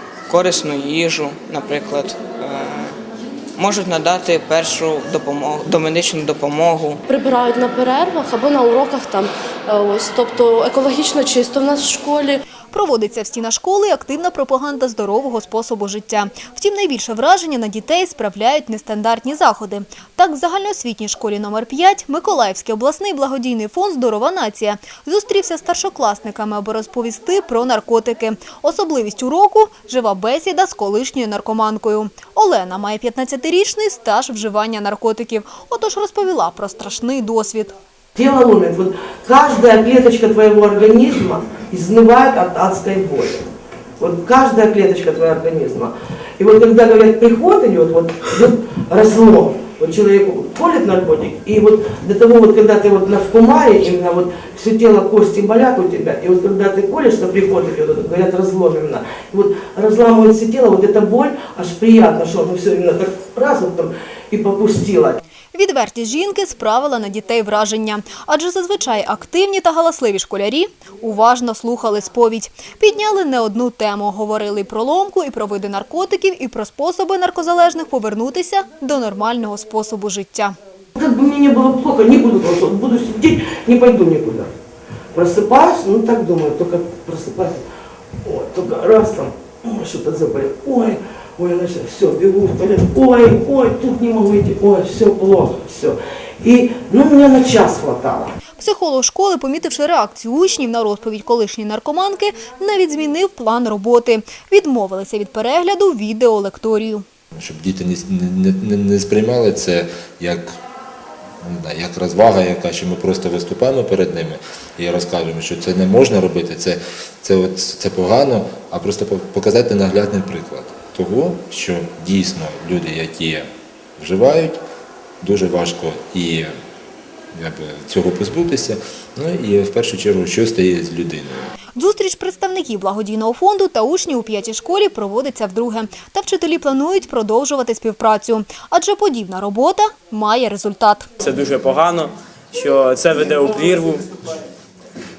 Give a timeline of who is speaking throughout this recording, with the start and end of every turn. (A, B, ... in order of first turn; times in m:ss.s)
0:00.3-0:03.0 A
0:03.6-0:07.0 A
0:07.1-0:12.4 B
0:12.7-0:37.8 C
0:38.2-0:43.5 D
0:44.0-1:05.2 D
1:05.5-1:20.6 C
1:21.0-1:24.5 D
1:25.1-1:27.6 D
1:28.2-1:38.3 D
1:38.6-1:47.0 C
1:47.4-1:50.6 E
1:51.4-2:04.6 E
2:05.2-2:06.5 E
2:07.3-2:11.5 E
2:11.8-2:21.1 C
2:21.2-2:24.0 F